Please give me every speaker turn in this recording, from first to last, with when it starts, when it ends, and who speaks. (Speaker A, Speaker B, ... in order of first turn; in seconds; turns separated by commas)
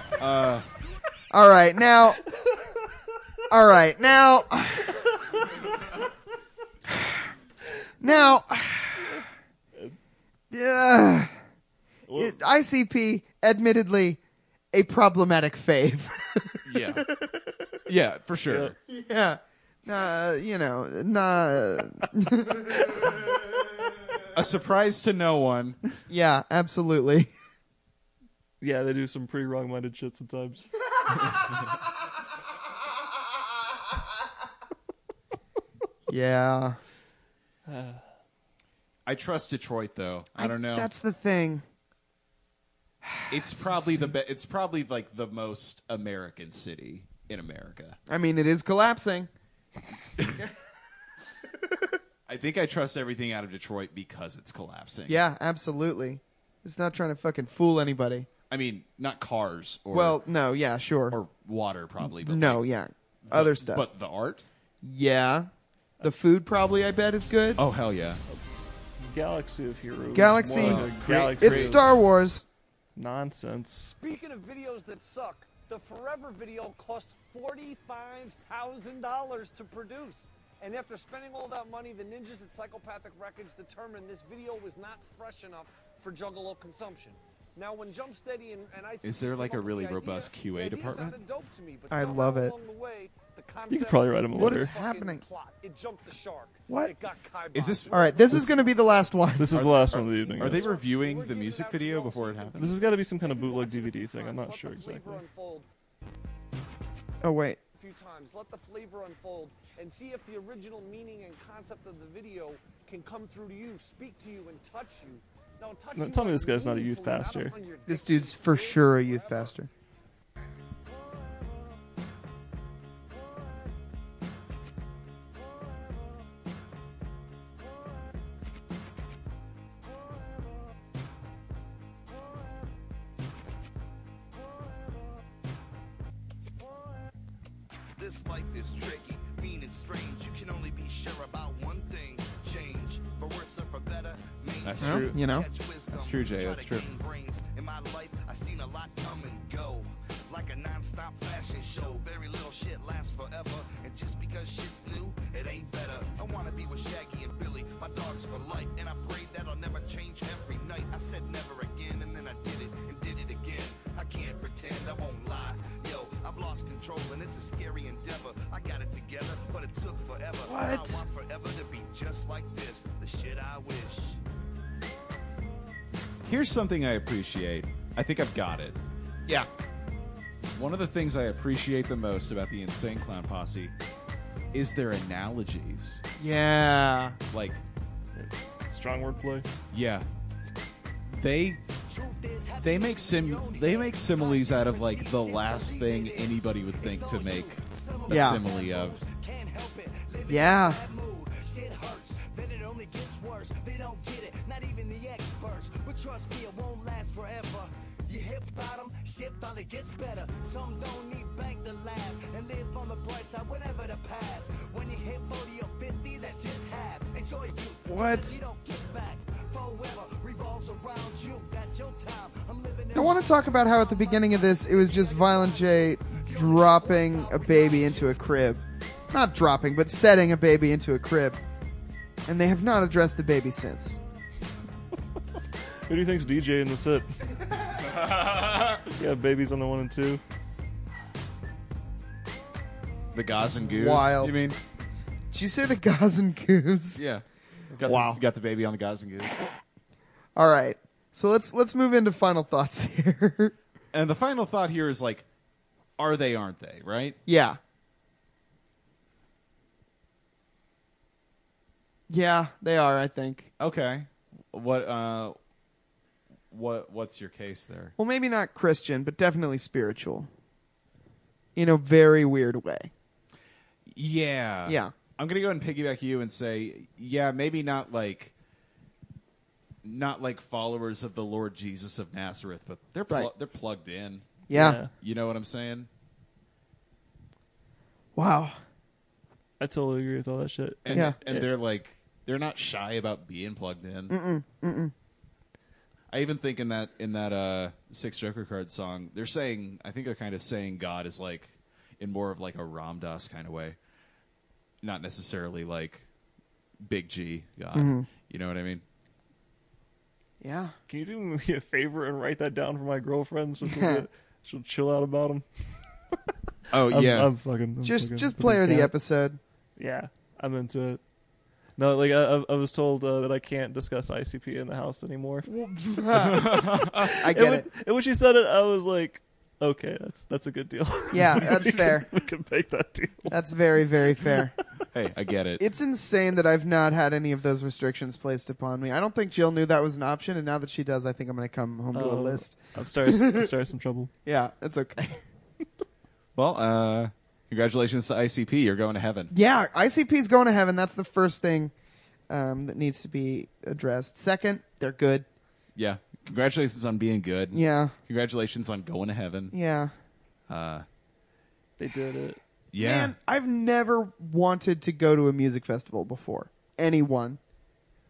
Speaker A: 0.2-0.7, Speaker B: 1.3-2.2, Speaker B: 3.5-5.1, Speaker B: 6.9-7.2, Speaker B: 8.0-9.2, Speaker B: 10.5-11.3, Speaker C: 12.1-12.4, Speaker B: 12.1-14.2, Speaker B: 14.7-17.6, Speaker A: 16.6-17.1, Speaker A: 17.9-18.8, Speaker C: 18.5-18.7, Speaker B: 18.9-23.3, Speaker A: 24.3-26.0, Speaker B: 26.1-27.3, Speaker C: 28.6-30.7, Speaker B: 36.1-36.8, Speaker C: 37.7-38.0, Speaker A: 39.1-40.9, Speaker B: 40.4-41.6, Speaker B: 43.0-44.1, Speaker A: 43.3-48.0, Speaker B: 48.1-49.3, Speaker A: 52.3-55.2, Speaker B: 55.1-58.3, Speaker A: 58.5-60.2, Speaker B: 59.9-61.2, Speaker A: 61.1-62.6, Speaker B: 62.0-63.9, Speaker A: 63.2-64.5, Speaker B: 64.8-65.5, Speaker B: 66.0-67.6, Speaker A: 67.6-68.2, Speaker C: 69.0-71.8, Speaker B: 70.1-72.5, Speaker A: 70.5-71.8, Speaker C: 73.0-73.9, Speaker D: 74.0-99.0, Speaker A: 89.0-91.2, Speaker B: 91.9-92.5, Speaker C: 93.7-94.8, Speaker B: 94.3-95.2, Speaker B: 96.7-96.9, Speaker A: 97.5-98.5, Speaker B: 97.9-99.6, Speaker C: 99.4-100.8, Speaker A: 99.5-102.8, Speaker D: 99.9-105.7, Speaker C: 102.5-105.2, Speaker B: 107.2-107.6, Speaker D: 107.8-119.6, Speaker C: 116.0-117.6, Speaker B: 117.9-119.7, Speaker E: 138.0-174.2, Speaker A: 144.6-145.2, Speaker B: 144.8-145.4, Speaker A: 145.9-146.9, Speaker B: 170.4-171.1, Speaker A: 176.3-178.8, Speaker A: 180.5-183.7, Speaker A: 184.5-186.0, Speaker B: 186.2-187.2, Speaker A: 187.3-187.6, Speaker C: 188.2-189.5, Speaker A: 189.7-190.1, Speaker A: 191.1-191.6, Speaker F: 191.9-228.2, Speaker A: 192.6-199.0, Speaker B: 198.1-198.4, Speaker B: 200.3-200.8, Speaker B: 217.9-218.4, Speaker B: 222.9-231.4, Speaker B: 232.3-234.0, Speaker C: 235.9-237.2, Speaker A: 237.8-238.8, Speaker C: 238.9-240.2, Speaker A: 243.1-244.6, Speaker B: 243.5-244.4, Speaker B: 245.3-247.0, Speaker A: 246.9-247.2, Speaker A: 247.8-249.4, Speaker B: 247.8-248.2, Speaker B: 250.4-253.6, Speaker A: 253.9-255.3, Speaker A: 256.0-257.2, Speaker B: 257.3-257.6, Speaker B: 262.1-263.5, Speaker A: 263.6-265.4, Speaker A: 266.5-267.9, Speaker B: 268.0-270.3, Speaker B: 271.6-272.9, Speaker A: 273.9-278.3, Speaker B: 274.7-274.9, Speaker A: 279.8-284.4, Speaker B: 284.5-284.8, Speaker C: 284.5-284.9, Speaker A: 285.0-285.9, Speaker B: 288.1-288.6, Speaker C: 289.6-291.5, Speaker A: 290.8-294.2, Speaker B: 294.1-294.9, Speaker A: 296.1-303.8, Speaker A: 304.8-306.1, Speaker A: 306.8-308.8, Speaker B: 307.7-308.1, Speaker B: 310.4-310.8, Speaker C: 310.9-316.2, Speaker B: 313.6-314.1, Speaker A: 316.7-317.3, Speaker C: 316.9-318.9, Speaker B: 317.8-319.4, Speaker C: 319.8-321.0, Speaker C: 321.8-325.5, Speaker B: 325.5-327.7, Speaker A: 326.1-327.1, Speaker C: 326.9-333.5, Speaker B: 331.1-332.1, Speaker B: 333.3-334.5, Speaker A: 334.9-335.6, Speaker B: 335.6-343.5, Speaker C: 341.9-344.1, Speaker B: 344.3-345.2, Speaker A: 346.4-349.3, Speaker B: 349.3-351.7, Speaker B: 352.3-355.3, Speaker A: 355.8-359.5, Speaker B: 357.5-357.9, Speaker B: 359.5-359.9, Speaker A: 360.5-360.9, Speaker C: 361.8-362.4, Speaker A: 362.7-363.1, Speaker B: 362.8-367.4